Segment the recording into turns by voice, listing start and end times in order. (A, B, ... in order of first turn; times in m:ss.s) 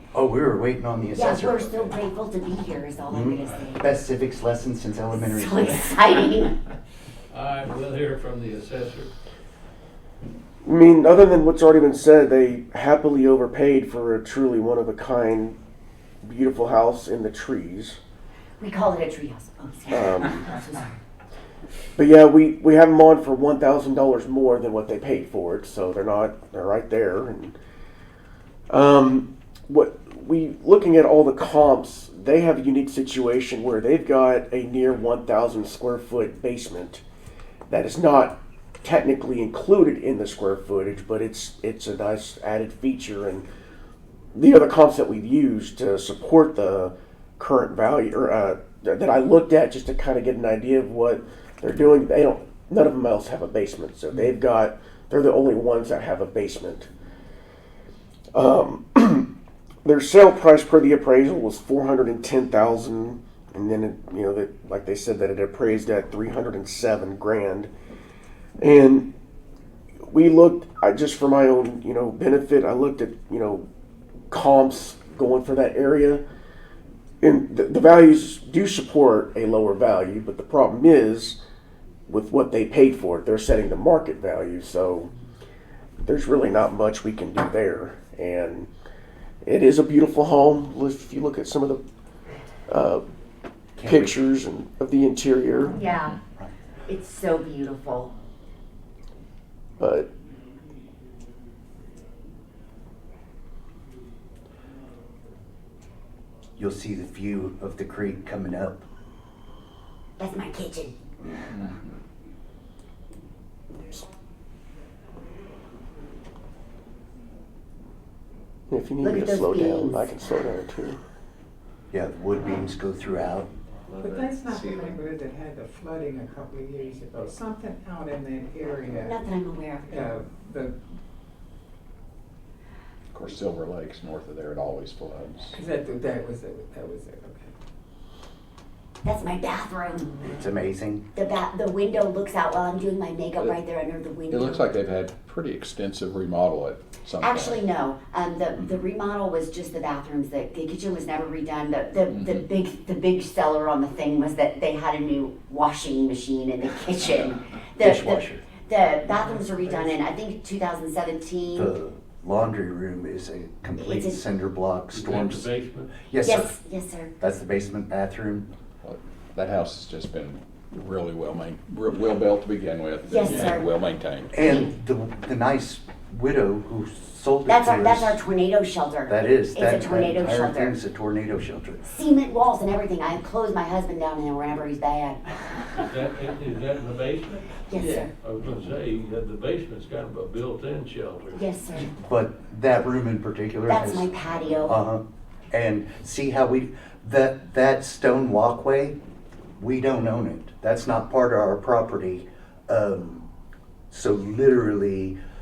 0:00.1-0:01.7 A
0:01.1-0:03.9 B
0:03.1-0:06.0 A
0:05.1-0:06.6 B
0:07.3-0:09.1 C
0:10.6-0:15.6 D
0:16.2-0:18.0 D
0:18.6-0:21.0 B
0:19.9-0:20.5 D
0:22.0-0:27.6 D
0:28.7-0:37.0 D
0:37.7-0:43.5 D
0:44.3-0:56.9 D
0:58.3-0:59.3 D
0:59.8-1:07.7 D
1:08.6-1:09.1 D
1:10.1-1:13.7 D
1:14.3-1:16.2 D
1:17.2-1:21.4 D
1:22.1-1:25.1 D
1:26.0-1:28.7 D
1:29.4-1:31.8 D
1:32.7-1:33.0 D
1:33.8-1:34.2 A
1:33.8-1:35.8 D
1:35.6-1:36.2 B
1:36.9-1:38.1 B
1:39.8-1:40.1 D
1:46.6-1:48.9 A
1:50.2-1:51.0 B
1:58.7-2:01.0 D
1:59.0-2:00.1 B
2:01.9-2:03.5 A
2:03.9-2:05.0 E
2:04.0-2:09.2 F
2:08.6-2:10.1 B
2:09.9-2:10.8 F
2:13.1-2:15.6 E
2:15.5-2:17.5 F
2:19.0-2:20.2 B
2:20.3-2:21.1 A
2:21.2-2:24.7 B
2:24.3-2:27.6 E
2:27.2-2:41.7 B
2:32.1-2:32.4 E
2:37.8-2:38.5 A
2:41.5-2:45.5 A
2:43.8-2:44.2 B
2:44.9-2:45.9 C
2:46.1-2:46.5 A
2:46.2-2:47.2 B
2:47.2-2:48.5 A
2:48.8-2:54.3 E
2:53.1-2:53.7 B
2:54.3-2:58.2 A
2:54.4-2:54.7 B
2:57.5-3:00.8 B
2:59.1-3:01.9 A
3:01.9-3:05.4 B
3:05.7-3:11.5 C
3:07.7-3:08.1 B
3:11.3-3:11.9 B
3:11.9-3:19.0 A
3:13.7-3:14.8 B
3:19.6-3:23.3 A
3:23.9-3:25.2 A